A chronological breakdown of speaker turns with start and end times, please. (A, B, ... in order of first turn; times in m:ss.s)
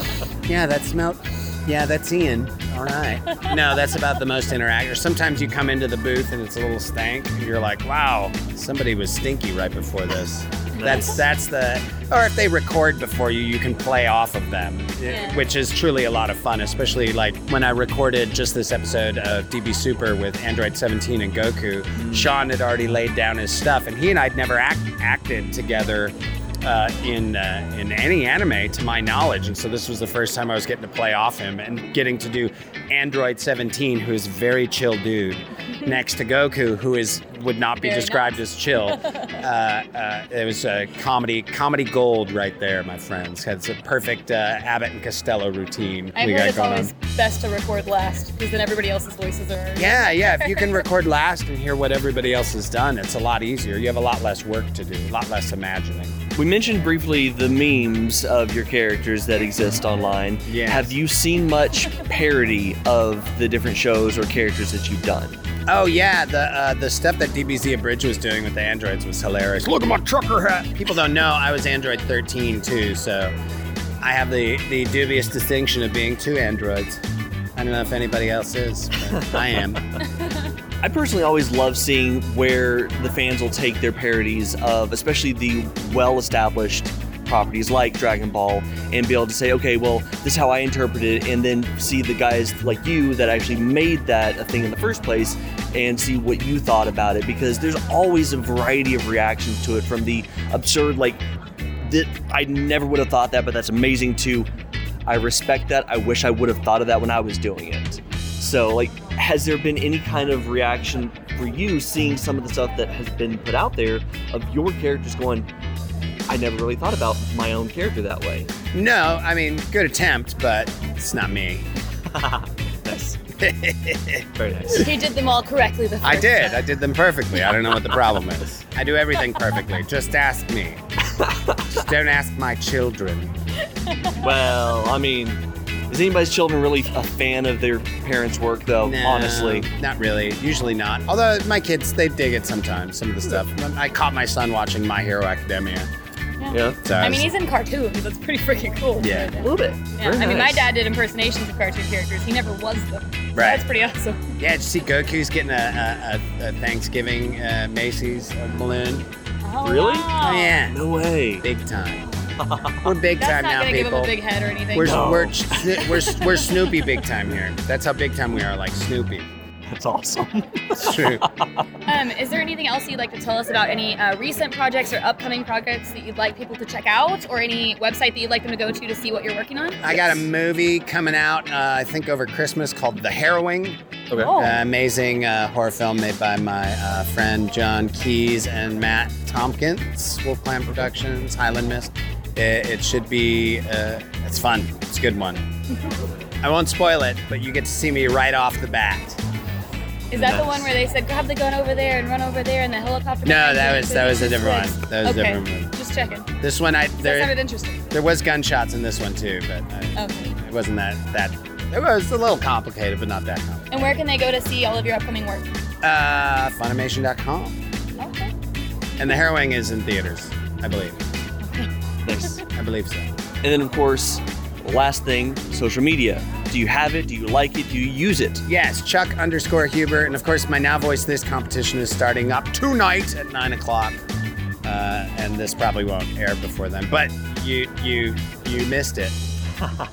0:00.5-0:46.9 A
0:10.7-0:11.2 B
0:15.1-0:15.4 C
0:22.0-0:22.3 B
0:37.8-0:39.3 C
0:46.2-0:50.8 C
0:49.8-0:56.1 A
0:56.4-1:05.4 B
1:00.4-1:00.9 A
1:05.7-1:13.3 A
1:14.0-1:17.0 A
1:17.6-1:19.8 A
1:20.8-1:41.2 B
1:41.8-1:44.5 B
1:45.1-1:55.5 B
1:56.3-1:58.5 B
1:58.7-2:01.7 A
2:02.1-2:03.2 B
2:03.4-2:04.8 A
2:04.4-2:04.9 B
2:04.7-2:06.6 C
2:06.0-2:10.8 A
2:11.2-2:11.7 B
2:11.7-2:13.3 A
2:14.1-2:19.7 B
2:18.8-2:25.9 A
2:26.4-2:34.2 C
2:26.5-2:26.8 B
2:26.8-2:27.3 A
2:29.0-2:29.3 A
2:29.4-2:30.7 B
2:33.4-2:33.6 A
2:34.4-2:39.1 A
2:39.4-2:40.6 C
2:39.6-2:41.5 B
2:40.2-2:40.8 A
2:41.4-2:42.0 A
2:42.4-2:42.8 B
2:42.8-2:44.1 A
2:43.2-2:45.1 C
2:44.7-2:49.3 A
2:44.8-2:45.8 B
2:45.7-2:47.0 C
2:49.7-2:51.7 B
2:50.8-2:51.2 A
2:51.9-3:00.0 C
2:59.8-3:15.4 A
3:04.1-3:04.4 B
3:04.2-3:04.6 C
3:16.4-3:19.2 A
3:20.1-3:26.3 C
3:20.1-3:20.7 B
3:23.2-3:25.7 A
3:26.4-3:27.3 A
3:27.0-3:27.8 C
3:27.9-3:33.7 A
3:30.0-3:30.3 C
3:33.7-3:35.5 C
3:35.8-3:37.6 A
3:38.0-3:38.3 C
3:39.0-3:41.0 A
3:41.4-3:41.7 C
3:42.0-3:42.4 B
3:42.6-3:43.1 A
3:43.4-3:48.4 B
3:48.5-3:54.0 A
3:54.6-3:59.2 A